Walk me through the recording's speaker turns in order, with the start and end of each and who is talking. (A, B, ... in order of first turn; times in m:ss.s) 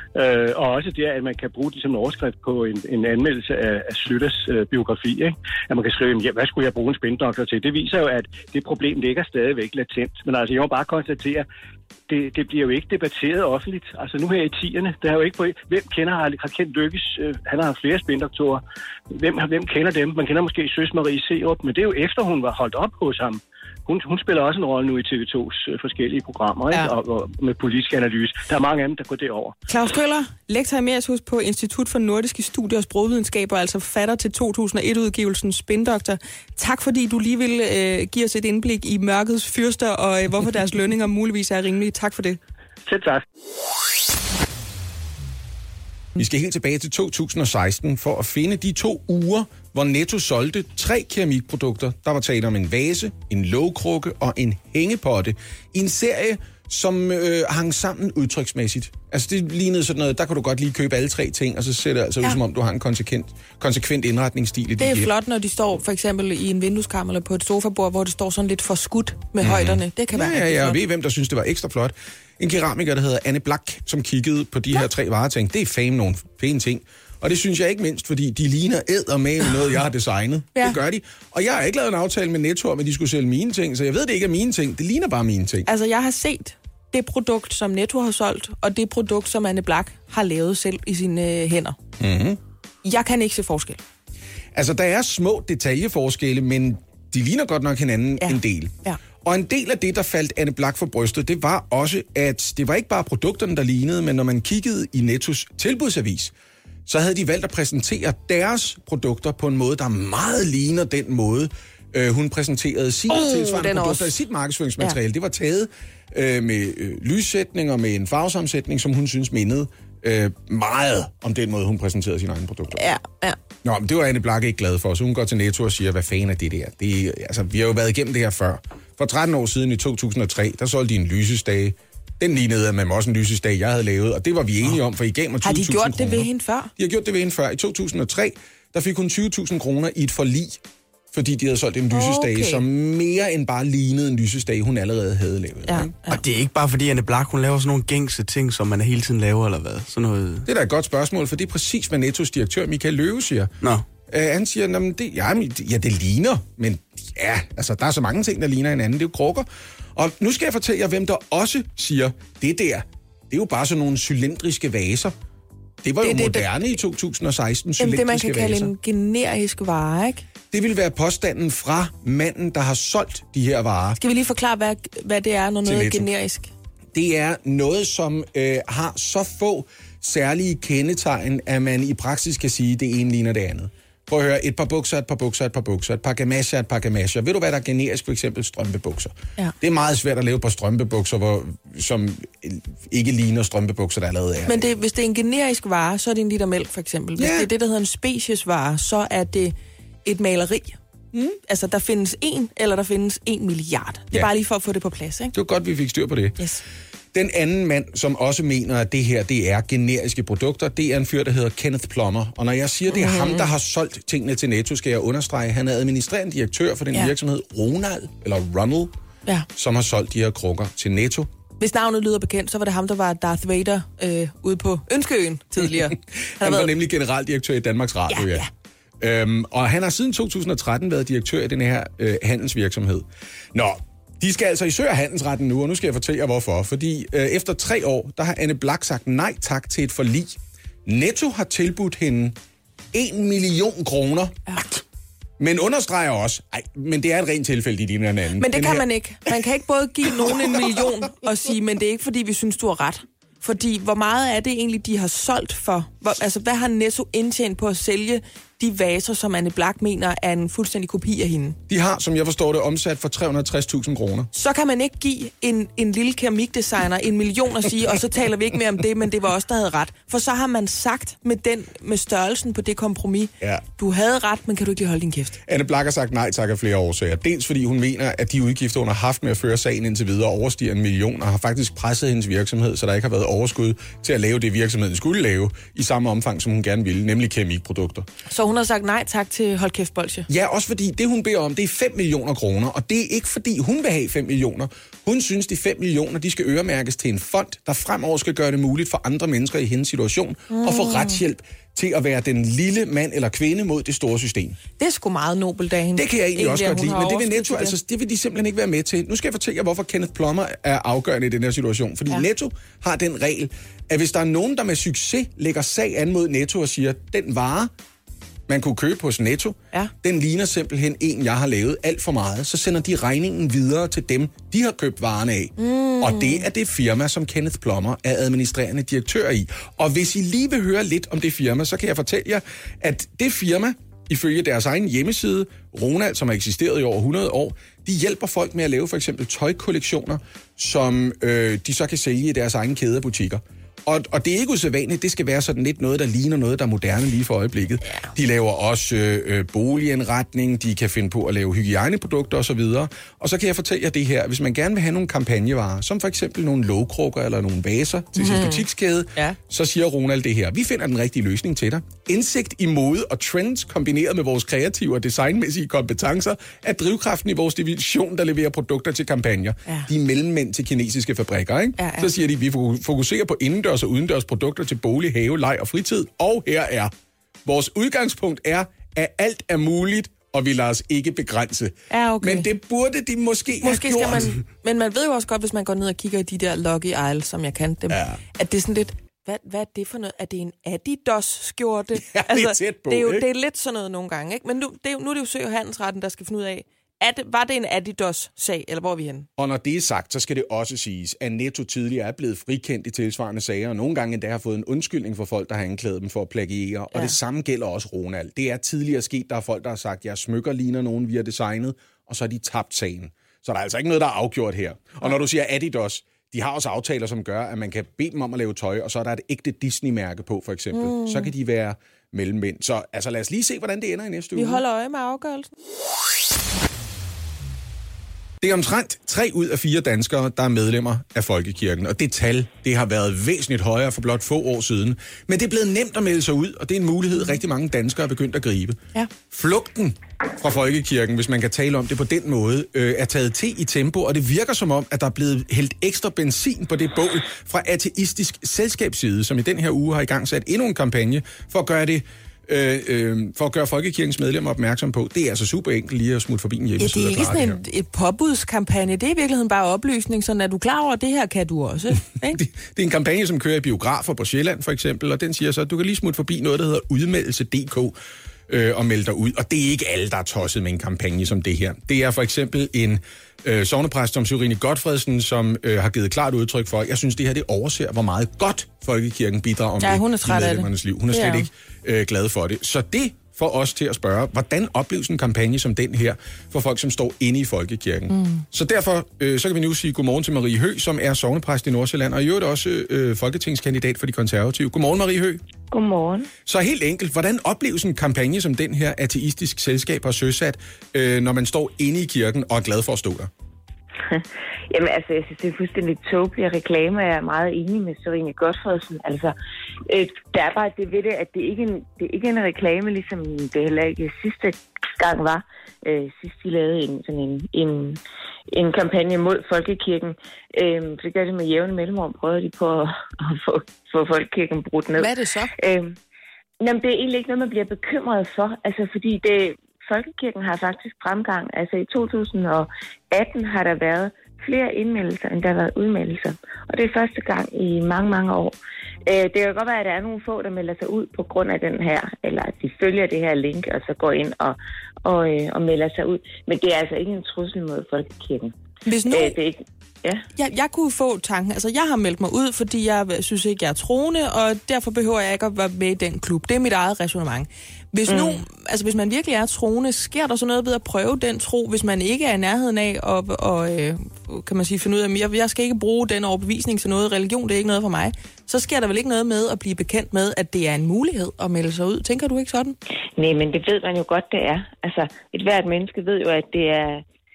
0:00.1-0:11.4 A
0:12.1-0:18.6 A
0:19.1-0:29.5 A
0:29.7-0:42.4 B
0:42.9-0:43.2 A
0:46.2-1:05.1 C
1:04.8-1:10.8 B
1:09.4-1:25.7 C
1:25.6-1:31.8 B
1:32.0-1:32.4 C
1:32.8-1:33.8 B
1:34.5-1:46.3 C
1:38.2-1:39.0 B
1:46.8-2:02.9 C
1:53.1-1:54.1 B
2:02.7-2:03.4 B
2:03.6-2:25.9 C
2:15.4-2:16.7 B
2:21.9-2:22.6 B
2:25.6-2:26.2 B
2:26.1-2:30.4 D
2:30.4-2:33.5 C
2:34.1-2:45.1 C
2:45.8-2:48.7 C
2:46.0-2:46.5 B
2:47.8-2:50.2 B
2:50.5-2:54.0 C
2:54.0-2:56.5 B
2:55.6-2:56.1 C
2:56.9-3:14.7 C
3:14.5-3:20.8 B
3:17.2-3:17.5 C
3:21.4-3:25.3 B
3:25.3-3:26.4 C
3:27.1-3:38.9 C
3:32.9-3:33.5 B
3:39.5-3:41.3 C
3:41.6-3:46.7 B
3:45.6-3:48.5 C
3:48.1-3:48.5 B
3:49.0-4:02.4 C
4:02.9-4:04.6 C
4:05.4-4:08.8 C
4:08.4-4:21.6 B
4:10.2-4:10.8 C
4:21.7-4:24.3 C
4:24.3-4:35.4 B
4:35.5-4:48.1 C
4:48.3-4:50.3 B
4:50.3-5:04.6 C
5:00.5-5:01.2 B
5:04.8-5:07.8 B
5:05.9-5:17.7 C
5:18.5-6:16.9 C
5:25.6-5:26.4 B
5:58.2-5:58.6 B
6:11.8-6:12.1 B
6:17.4-6:24.3 C
6:21.9-6:22.5 B
6:23.6-6:39.3 B
6:27.9-6:28.2 C
6:32.0-6:33.3 C
6:39.4-7:04.6 C
7:00.7-7:01.3 B
7:04.3-7:05.5 B
7:08.4-7:37.6 C
7:36.8-7:42.4 B
7:42.3-7:47.9 C
7:48.5-8:15.4 C
7:59.8-8:01.5 B
8:08.1-8:08.4 B
8:15.7-8:16.3 E
8:16.4-8:23.3 C
8:24.1-8:29.4 E
8:29.9-8:38.0 E
8:38.5-8:45.9 E
8:45.0-8:45.5 B
8:46.6-9:08.5 E
9:08.8-9:09.4 B
9:09.0-9:10.2 E
9:10.3-9:32.8 B
9:18.1-9:18.4 E
9:33.2-9:37.0 E